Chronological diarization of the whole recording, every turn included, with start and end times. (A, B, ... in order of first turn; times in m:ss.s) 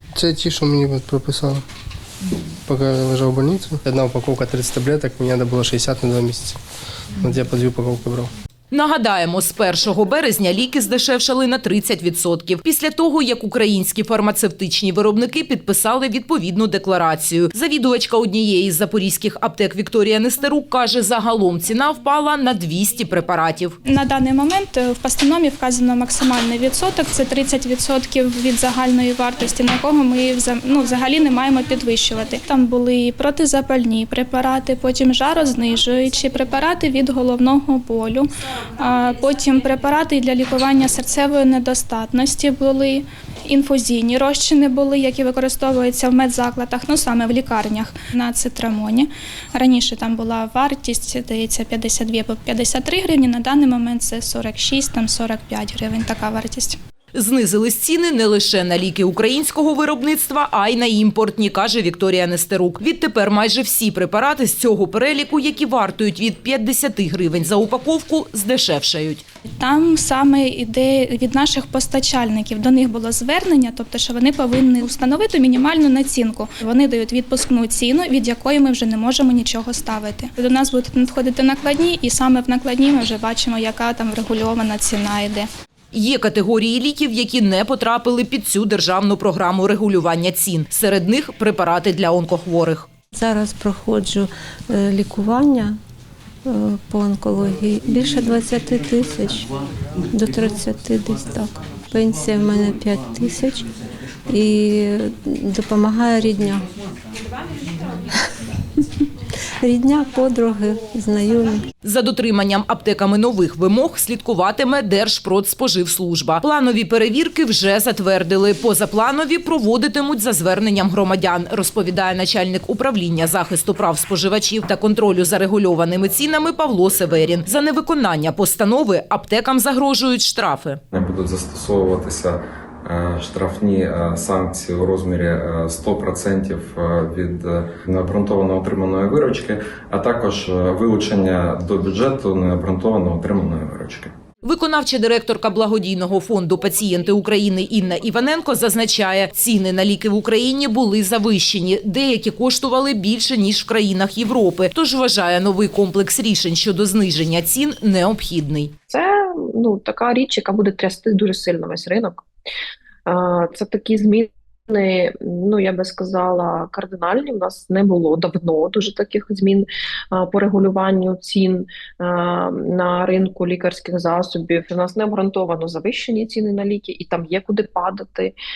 0:00.2-0:01.6 A
0:02.7-0:06.6 A
0:07.2-0:08.3 A
0:08.7-0:23.8 B
0:23.8-0:56.8 C
0:57.2-1:09.2 B
1:09.6-1:25.5 C
1:25.9-1:32.9 B
1:33.1-1:35.8 D
1:36.5-1:39.4 D
1:40.1-1:43.7 D
1:44.3-1:46.7 D
1:49.6-1:51.7 D
1:51.8-2:10.8 B
2:10.9-2:24.1 E
2:24.4-2:38.7 B
2:38.9-2:42.2 F
2:43.1-2:58.3 F